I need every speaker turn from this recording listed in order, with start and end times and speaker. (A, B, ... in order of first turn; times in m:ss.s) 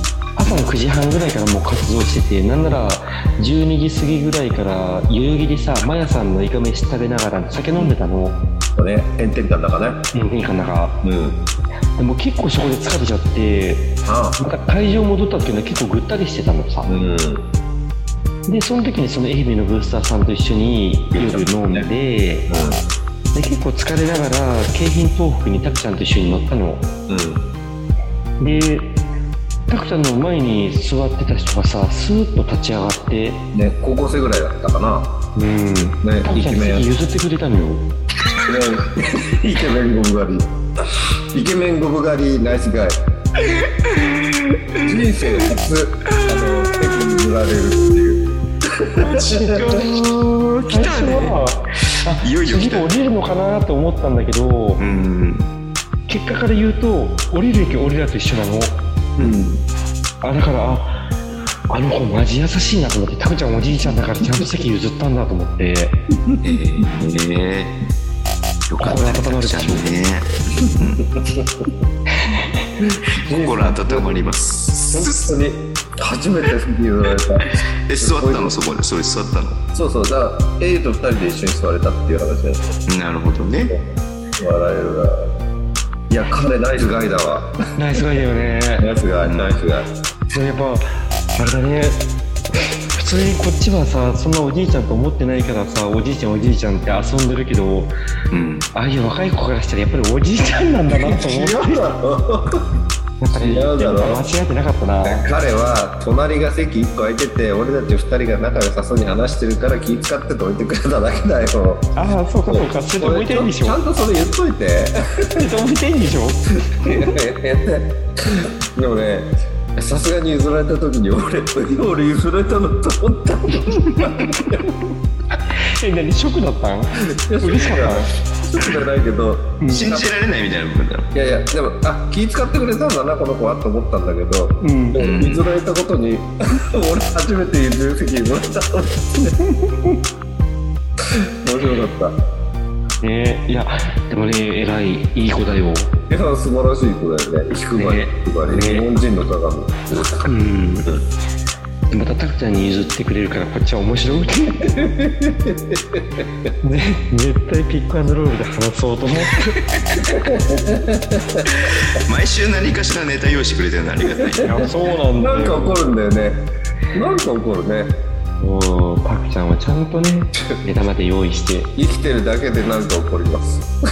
0:00.4-0:08.4 A
0:08.8-0:10.0 B
0:10.1-0:11.0 A
0:11.0-0:11.4 B
0:12.0-0:16.9 A
0:14.0-0:14.4 B
0:16.8-0:17.4 B
0:18.5-0:22.5 A
0:21.1-0:21.9 B
0:22.5-0:22.8 B
0:23.3-0:26.9 A
0:27.1-0:27.4 B
0:28.4-0:29.0 A
0:29.7-0:33.4 A
0:33.5-0:35.1 B
0:35.4-0:37.9 A
0:36.0-0:36.9 B
0:38.4-0:40.5 B
0:41.3-0:43.0 B
0:44.4-0:44.6 C
0:44.8-0:49.8 B
0:46.1-0:47.2 C
0:49.0-0:50.1 A
0:49.1-0:51.4 C
0:50.7-0:54.8 A
0:52.2-0:52.9 C
0:54.8-0:55.5 C
0:56.1-0:58.8 A
0:59.2-0:59.6 C
0:59.2-0:59.4 B
1:00.2-1:01.0 A
1:01.7-1:06.0 A
1:06.3-1:06.8 B
1:06.4-1:07.7 C
1:08.7-1:11.1 C
1:08.8-1:09.8 A
1:11.1-1:11.7 B
1:12.2-1:12.6 A
1:12.8-1:14.3 B
1:13.2-1:15.4 C
1:14.9-1:18.6 B
1:17.8-1:19.6 C
1:19.7-1:22.8 B
1:22.9-1:23.8 C
1:24.4-1:25.3 B
1:26.1-1:27.6 B
1:27.8-1:28.9 A
1:28.8-1:29.9 B
1:29.2-1:29.6 C
1:30.3-1:32.0 A
1:32.9-1:37.9 A
1:38.3-1:38.7 C
1:38.7-1:41.9 A
1:40.9-1:42.7 B
1:43.2-1:45.3 A
1:43.3-1:44.2 B
1:45.0-1:51.9 B
1:52.0-1:53.8 A
1:52.4-1:55.5 B
1:55.4-1:56.4 A
1:56.6-2:04.7 B
2:05.5-2:08.1 A
2:07.1-2:10.0 B
2:08.6-2:08.8 C
2:09.6-2:09.9 A
2:09.7-2:11.1 C
2:11.1-2:19.3 B
2:14.6-2:15.0 A
2:15.0-2:15.4 C
2:19.4-2:20.0 A
2:21.0-2:22.2 B
2:23.0-2:25.9 A
2:26.1-2:30.3 B
2:27.7-2:28.9 A
2:30.2-2:30.9 A
2:31.9-2:34.7 A
2:34.6-2:36.3 B
2:36.6-2:39.6 A
2:40.0-2:41.5 B
2:41.5-2:44.6 C
2:44.2-2:48.0 B
2:44.4-2:45.8 A
2:48.4-2:51.7 A
2:51.8-2:53.7 B